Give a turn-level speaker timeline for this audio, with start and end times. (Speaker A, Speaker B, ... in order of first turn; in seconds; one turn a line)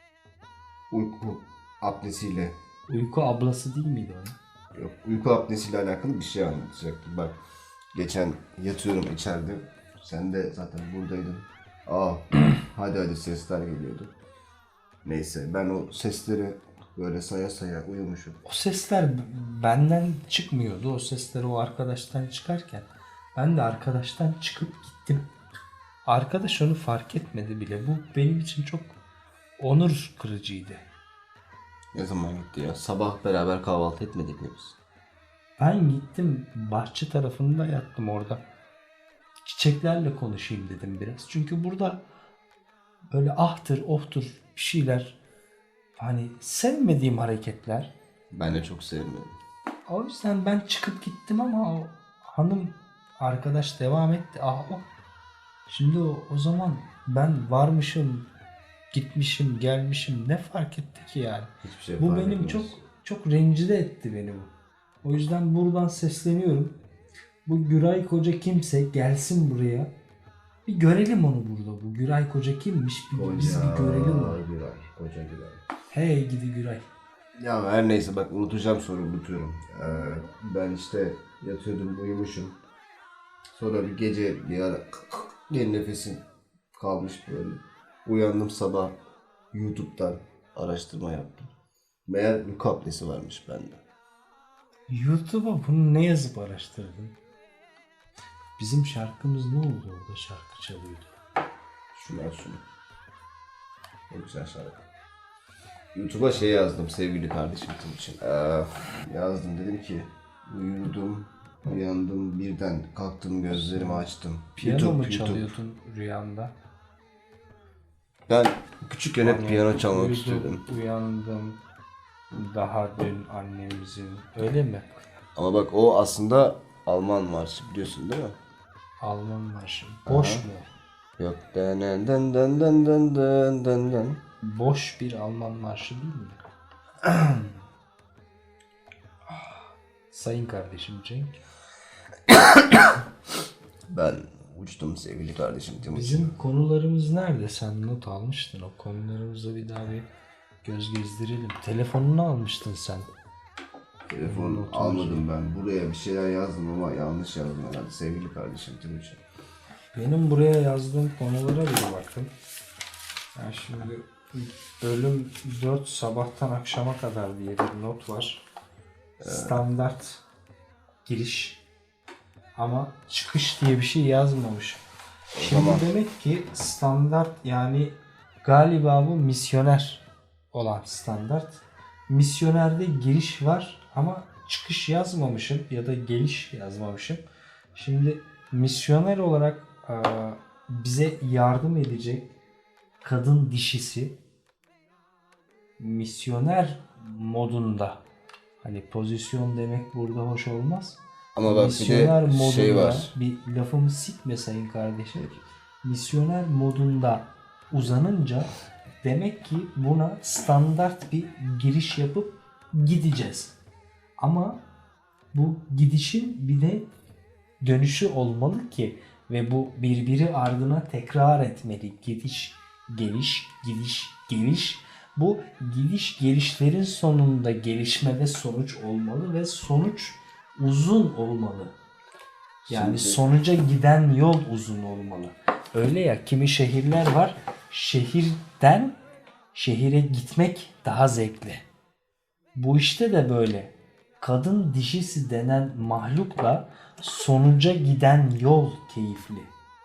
Speaker A: 0.9-2.5
Speaker B: 2.9-4.4
Speaker A: 4.7-7.4
Speaker A: 7.9-14.1
Speaker A: 15.0-18.4
Speaker B: 18.4-25.2
Speaker B: 26.1-29.0
Speaker B: 29.6-30.9
Speaker A: 31.9-34.8
Speaker B: 35.6-38.4
Speaker B: 39.4-42.0
Speaker B: 43.1-45.2
Speaker B: 46.0-47.9
Speaker A: 48.3-49.4
Speaker B: 49.9-54.9
Speaker B: 55.7-58.3
Speaker B: 58.9-66.8
Speaker A: 61.6-62.8
Speaker B: 67.5-69.9
Speaker B: 70.7-74.4
Speaker A: 73.1-75.6
Speaker B: 75.9-76.9
Speaker A: 77.4-82.6
Speaker A: 83.5-89.0
Speaker A: 89.5-91.5
Speaker A: 92.1-93.8
Speaker B: 94.9-97.2
Speaker B: 98.6-101.2
Speaker A: 101.9-102.6
Speaker A: 104.1-104.8
Speaker A: 105.9-115.5
Speaker B: 113.5-114.1
Speaker B: 114.6-116.5
Speaker A: 118.3-120.6
Speaker B: 119.2-121.6
Speaker B: 122.3-124.9
Speaker A: 125.4-128.4
Speaker B: 129.0-130.7
Speaker A: 130.1-130.5
Speaker A: 131.2-134.2
Speaker B: 134.4-136.4
Speaker B: 137.1-137.5
Speaker B: 139.3-139.6
Speaker B: 140.1-141.3
Speaker A: 142.3-142.9
Speaker A: 143.9-146.3
Speaker B: 145.9-150.1
Speaker B: 150.6-153.1
Speaker A: 154.1-159.2
Speaker B: 154.3-155.3
Speaker B: 159.9-162.3
Speaker B: 163.3-168.4
Speaker A: 169.2-169.6
Speaker B: 169.2-170.2
Speaker B: 171.1-171.6
Speaker B: 172.6-174.8
Speaker A: 175.3-175.9
Speaker B: 175.4-192.3
Speaker B: 193.0-194.2
Speaker B: 195.8-198.0
Speaker B: 198.6-213.6
Speaker A: 201.3-203.1
Speaker B: 214.2-214.6
Speaker B: 215.3-216.9
Speaker B: 217.6-231.8
Speaker B: 232.7-239.0
Speaker A: 232.7-233.2
Speaker B: 239.5-241.7
Speaker B: 242.6-249.5